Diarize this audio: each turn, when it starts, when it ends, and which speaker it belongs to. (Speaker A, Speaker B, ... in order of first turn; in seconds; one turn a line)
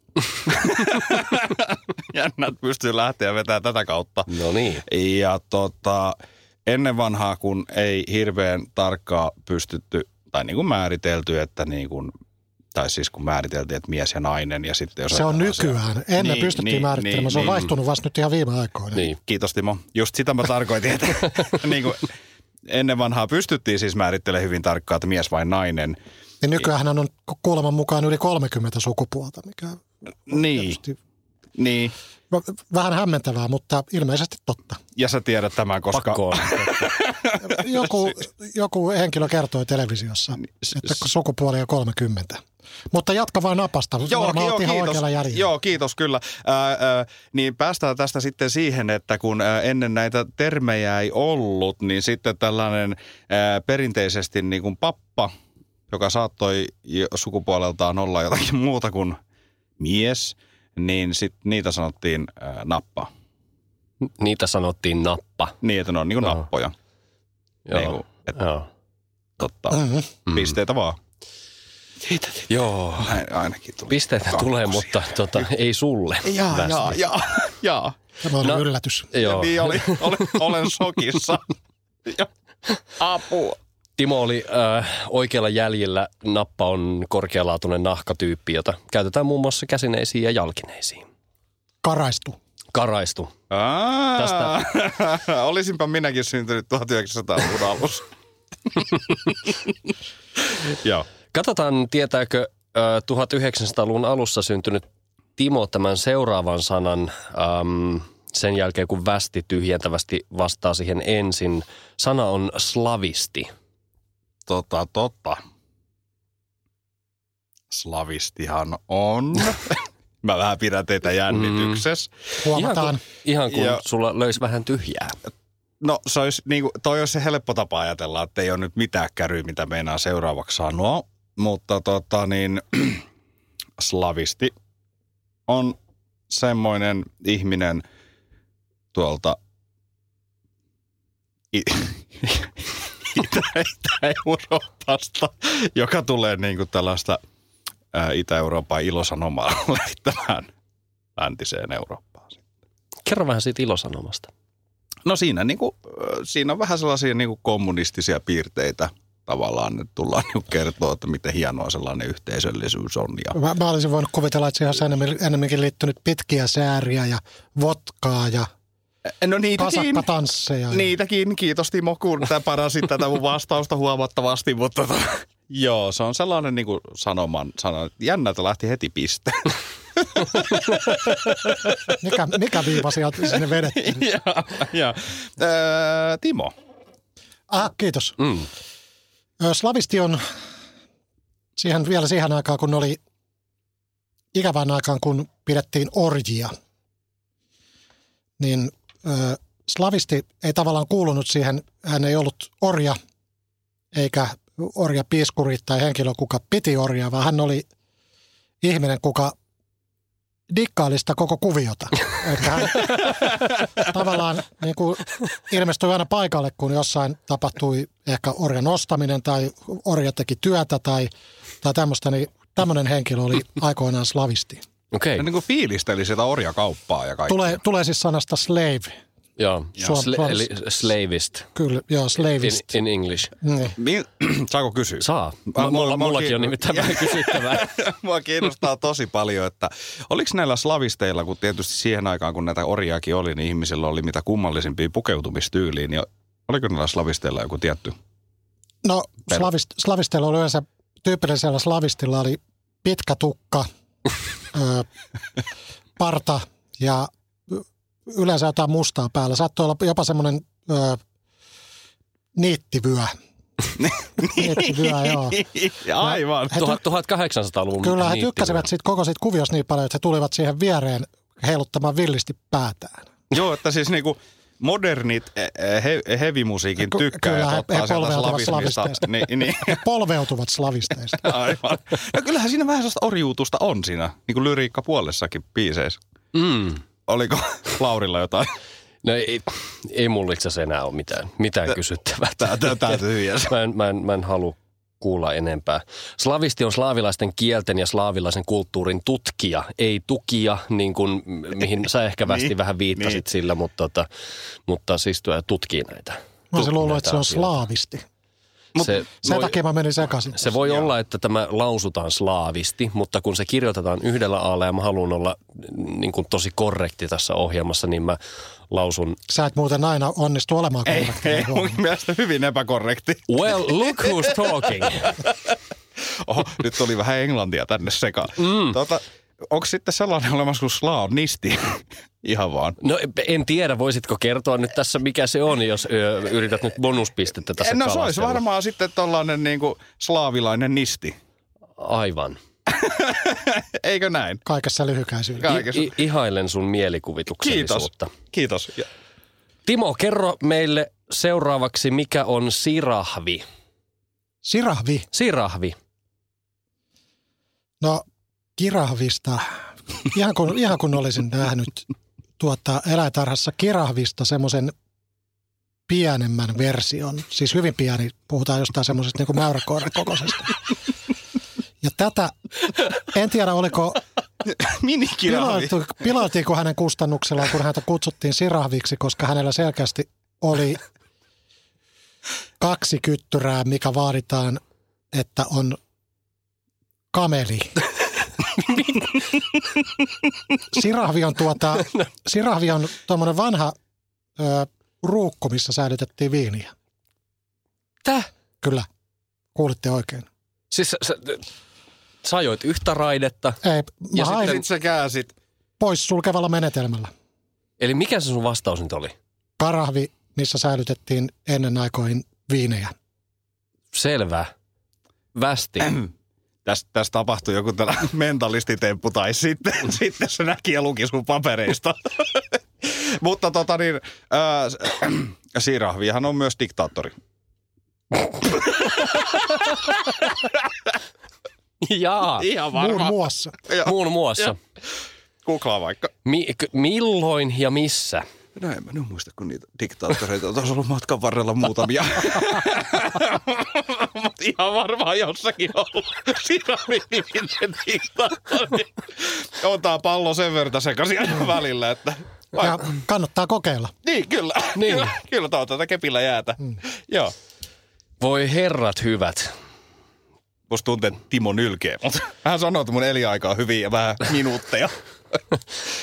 Speaker A: 0.5-4.3
Speaker B: 4.3-4.8
Speaker A: 4.9-12.1
Speaker A: 12.8-17.7
Speaker C: 15.1-19.1
Speaker A: 19.0-22.1
Speaker A: 22.7-26.0
Speaker C: 26.4-31.0
Speaker A: 30.3-30.8
Speaker A: 31.6-31.9
Speaker C: 32.3-34.8
Speaker A: 35.0-37.6
Speaker B: 35.9-36.9
Speaker C: 37.4-42.4
Speaker A: 40.6-40.9
Speaker C: 42.9-45.5
Speaker A: 44.1-55.3
Speaker A: 55.9-59.2
Speaker A: 59.8-63.1
Speaker B: 64.2-65.5
Speaker A: 65.6-66.7
Speaker B: 67.7-68.7
Speaker A: 67.7-68.3
Speaker A: 69.4-71.0
Speaker C: 69.7-70.1
Speaker B: 72.0-73.2
Speaker A: 73.0-74.9
Speaker B: 73.9-77.0
Speaker A: 76.2-78.0
Speaker C: 78.2-79.1
Speaker B: 78.4-80.4
Speaker A: 79.2-81.5
Speaker A: 83.0-83.6
Speaker B: 84.0-91.0
Speaker C: 91.8-92.4
Speaker B: 92.7-93.3
Speaker A: 93.5-98.0
Speaker B: 94.2-94.5
Speaker B: 101.3-104.8
Speaker B: 105.4-113.5
Speaker A: 114.5-115.4
Speaker A: 117.7-122.1
Speaker B: 121.5-121.8
Speaker C: 122.4-123.0
Speaker B: 122.5-125.2
Speaker A: 123.5-123.8
Speaker A: 125.8-133.0
Speaker A: 133.8-134.5
Speaker A: 135.5-135.8
Speaker A: 136.3-137.8
Speaker A: 138.9-139.4
Speaker A: 141.5-147.2
Speaker A: 147.9-150.5
Speaker A: 151.2-152.4
Speaker B: 153.1-154.3
Speaker A: 155.1-163.4
Speaker C: 163.3-168.5
Speaker A: 169.2-170.1
Speaker C: 169.6-170.9
Speaker A: 170.7-181.8
Speaker C: 182.0-184.1
Speaker A: 183.8-186.5
Speaker C: 187.5-188.4
Speaker C: 189.4-190.2
Speaker C: 191.6-193.0
Speaker C: 194.3-196.5
Speaker C: 198.4-203.0
Speaker C: 203.9-207.7
Speaker C: 208.6-209.3
Speaker C: 210.5-221.1
Speaker C: 221.6-224.6
Speaker B: 224.9-225.3
Speaker A: 225.2-227.6
Speaker C: 227.3-228.9
Speaker B: 229.4-231.5
Speaker C: 229.8-230.5
Speaker C: 231.6-232.7
Speaker B: 232.4-233.3
Speaker C: 233.4-233.8
Speaker A: 233.8-248.0
Speaker B: 235.0-237.7
Speaker C: 248.8-253.7
Speaker C: 254.5-254.9
Speaker C: 256.0-261.0
Speaker C: 262.4-263.1
Speaker A: 263.8-266.7
Speaker C: 264.3-265.4
Speaker C: 266.0-266.8
Speaker B: 266.5-268.7
Speaker C: 267.8-273.1
Speaker A: 273.3-279.8
Speaker C: 276.8-281.3
Speaker A: 281.2-286.0
Speaker B: 286.3-286.8
Speaker A: 287.1-288.5
Speaker B: 289.0-304.1
Speaker A: 292.4-293.5
Speaker A: 302.3-303.2
Speaker B: 304.7-307.6
Speaker C: 306.5-308.1
Speaker A: 308.8-309.1
Speaker B: 308.8-309.6
Speaker C: 309.2-310.5
Speaker B: 310.4-318.2
Speaker A: 310.6-310.9
Speaker B: 318.7-319.2
Speaker C: 319.3-321.8
Speaker A: 320.9-324.3
Speaker B: 323.3-325.2
Speaker A: 326.2-332.8
Speaker B: 328.4-328.8
Speaker B: 332.8-338.4
Speaker A: 337.6-341.2
Speaker B: 341.8-342.4
Speaker A: 342.8-344.4
Speaker C: 344.4-345.7
Speaker A: 345.4-345.9
Speaker B: 345.4-348.1
Speaker A: 347.4-348.9
Speaker B: 349.7-353.4
Speaker C: 354.4-355.1
Speaker B: 355.1-355.8
Speaker C: 358.6-361.9
Speaker C: 362.4-364.7
Speaker C: 365.9-370.6
Speaker C: 371.8-372.3
Speaker C: 372.9-374.0
Speaker A: 374.5-375.8
Speaker C: 375.3-380.8
Speaker C: 382.6-384.6
Speaker C: 385.1-385.8
Speaker C: 387.1-387.8
Speaker C: 390.7-393.8
Speaker C: 394.4-396.7
Speaker C: 398.6-398.9
Speaker C: 399.6-400.3
Speaker B: 400.7-401.4
Speaker B: 402.2-403.6
Speaker C: 403.6-404.6
Speaker A: 404.2-405.3
Speaker B: 404.2-404.6
Speaker C: 405.8-407.1
Speaker B: 407.8-409.1
Speaker C: 409.6-412.9
Speaker B: 413.9-414.5
Speaker B: 415.3-416.0
Speaker A: 416.7-427.1
Speaker A: 428.7-429.9
Speaker B: 431.8-432.5
Speaker A: 432.4-434.5
Speaker C: 432.7-433.6
Speaker B: 433.8-434.6
Speaker A: 435.4-436.1
Speaker B: 436.2-438.2
Speaker A: 438.6-452.8
Speaker C: 452.6-453.9
Speaker A: 454.0-457.3
Speaker B: 454.8-455.1
Speaker B: 458.2-459.5
Speaker A: 460.7-465.0